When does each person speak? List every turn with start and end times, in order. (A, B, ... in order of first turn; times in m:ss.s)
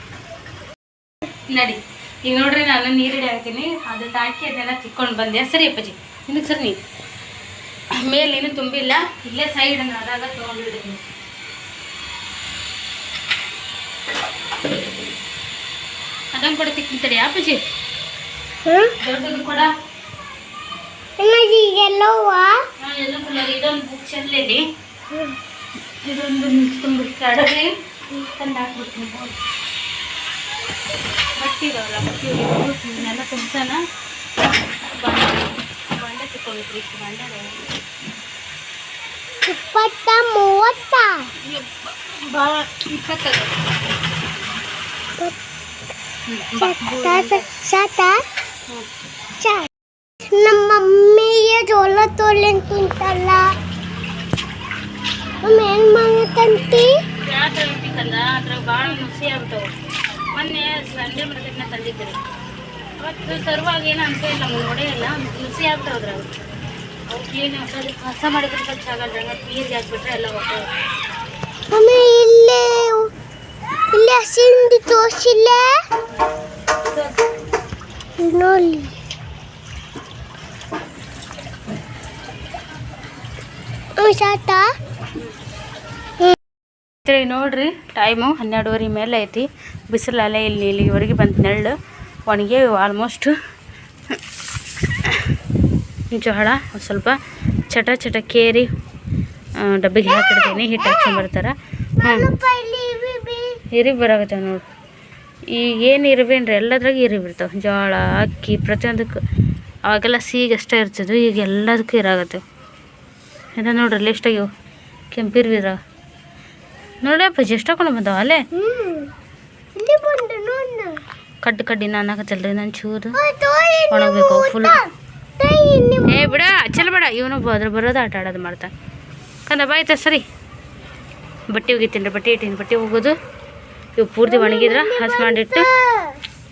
0:01.5-0:06.8 A
0:08.0-0:11.0 A
0:16.3-0:17.6 A
0:18.6-0:18.9 B
0:19.0-0:19.7 A
0:21.2-0:22.6 B
0:22.8-0:24.6 A
0:25.1-0:25.4 B
0:26.0-0:29.3 A
0:31.4-0:33.8 A
0:35.0-0:37.6 A
0:39.4-0:41.3 B
0:41.4-0:43.7 A
0:46.3-0:47.4 A
0:46.5-0:48.2 B
0:49.4-0:49.7 B
0:50.2-0:53.5 B
0:55.4-0:56.9 B
0:57.2-0:59.7 A
1:00.3-1:02.2 A
1:03.0-1:06.3 A
1:07.1-1:10.7 A
1:11.7-1:13.1 B
1:13.9-1:15.7 B
1:18.2-1:18.9 B
1:24.0-1:24.7 B
1:27.0-1:31.8 A
1:32.3-1:33.3 A
1:36.1-1:37.2 A
1:37.7-1:38.7 A
1:39.6-1:42.3 A
1:40.0-1:41.3 B
1:42.0-1:43.6 B
1:43.7-1:44.6 A
1:45.5-1:49.2 A
1:49.8-1:52.4 A
1:53.6-1:54.5 A
1:55.1-1:55.8 A
1:57.0-1:58.4 A
1:58.5-1:59.1 B
1:59.7-2:01.0 B
2:01.4-2:03.2 A
2:03.1-2:06.4 B
2:03.9-2:04.8 A
2:06.1-2:08.7 A
2:09.5-2:10.2 A
2:11.5-2:13.1 A
2:14.0-2:15.7 A
2:14.2-2:16.2 B